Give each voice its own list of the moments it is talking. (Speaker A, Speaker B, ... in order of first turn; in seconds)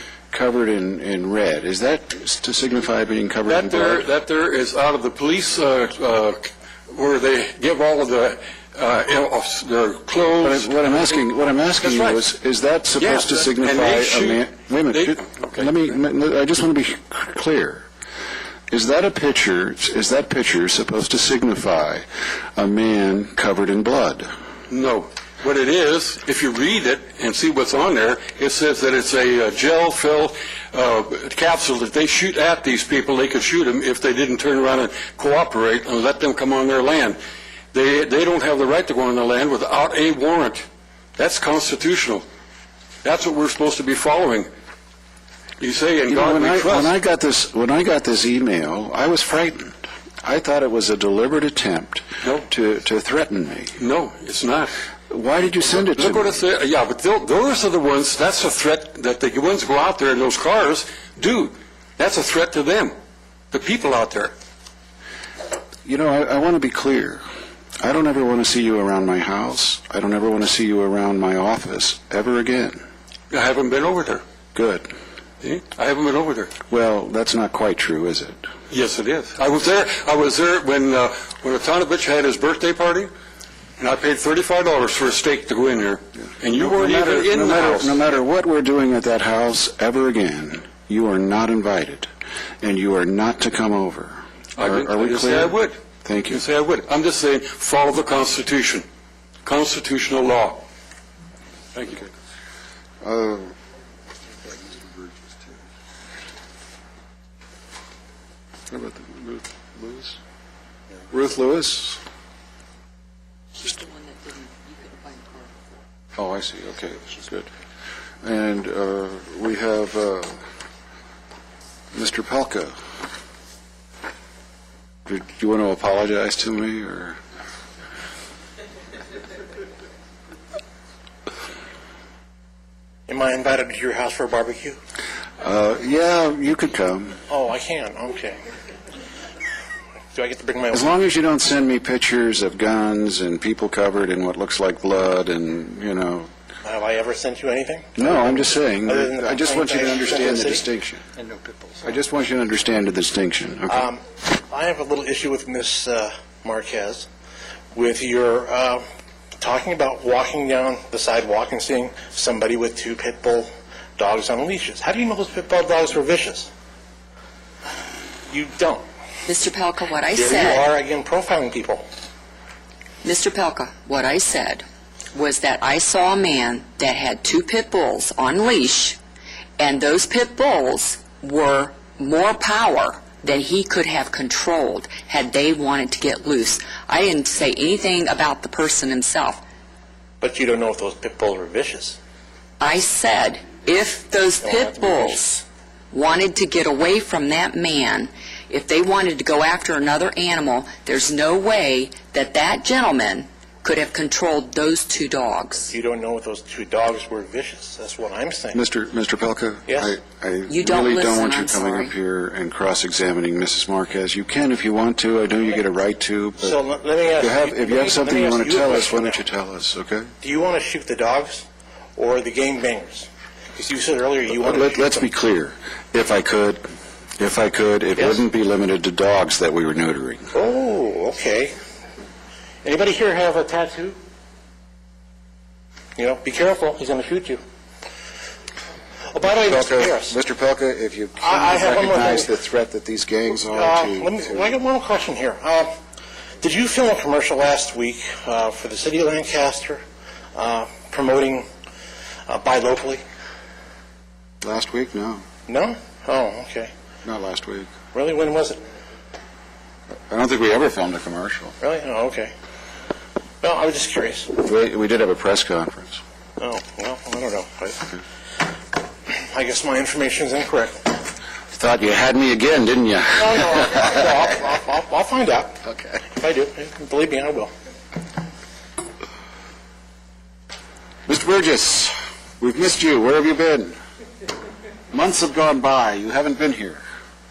Speaker A: 0.3-4.1, 10.4-17.9, 18.7-22.0, 22.6-24.3, 46.1-53.8, 55.1-56.4, 65.8-67.2, 67.8-72.8, 74.5-74.8, 76.7-78.4, 86.4-92.1, 92.6-96.4, 103.0-103.5, 108.7-110.2, 111.1-112.0, 116.2-117.5, 118.2-120.4, 121.9-122.8, 125.0-127.2, 135.4-137.2, 140.7-146.3, 148.0-151.0, 151.8-153.9, 208.5-216.6, 217.2-220.1, 224.3-226.6, 227.2-230.3, 239.4-244.5, 254.4-255.2, 257.0-257.7, 260.1-261.5, 264.4-266.0, 271.5-274.0, 281.1-283.8, 284.9-286.8
Speaker B: 3.5-11.2, 11.8-12.2, 13.0-15.7, 24.7-37.2, 37.7-40.6, 41.2-42.2, 43.0-44.5, 45.6-46.9, 53.8-54.7, 55.6-62.9, 63.5-64.3, 73.3-74.2, 75.4-76.5, 78.7-83.1, 83.8-88.2, 94.6-95.8, 96.3-98.8, 99.4-100.6, 101.7-102.1
Speaker C: 113.6-115.5, 169.2-170.7, 173.0-179.0, 179.6-189.4, 192.6-205.7, 210.5-211.9
Speaker D: 133.1-134.8, 137.3-138.4, 140.1-140.9, 146.6-150.6, 153.7-157.1, 157.7-158.8, 159.4-166.5, 168.3-168.8, 170.1-171.8, 190.2-192.0, 194.4-195.2, 205.7-208.6, 209.7-209.9, 216.4-219.2, 220.2-221.4, 221.9-225.1, 227.9-228.2, 230.3-231.5, 232.6-233.9, 235.9-237.4, 239.1-240.1, 241.2-242.3, 243.3-245.7, 246.4-249.8, 250.3-251.4, 252.3-253.0, 255.5-256.7, 257.9-258.6, 261.6-262.3, 263.4-264.3, 266.4-267.9, 269.1-271.0, 273.2-275.6, 276.1-277.5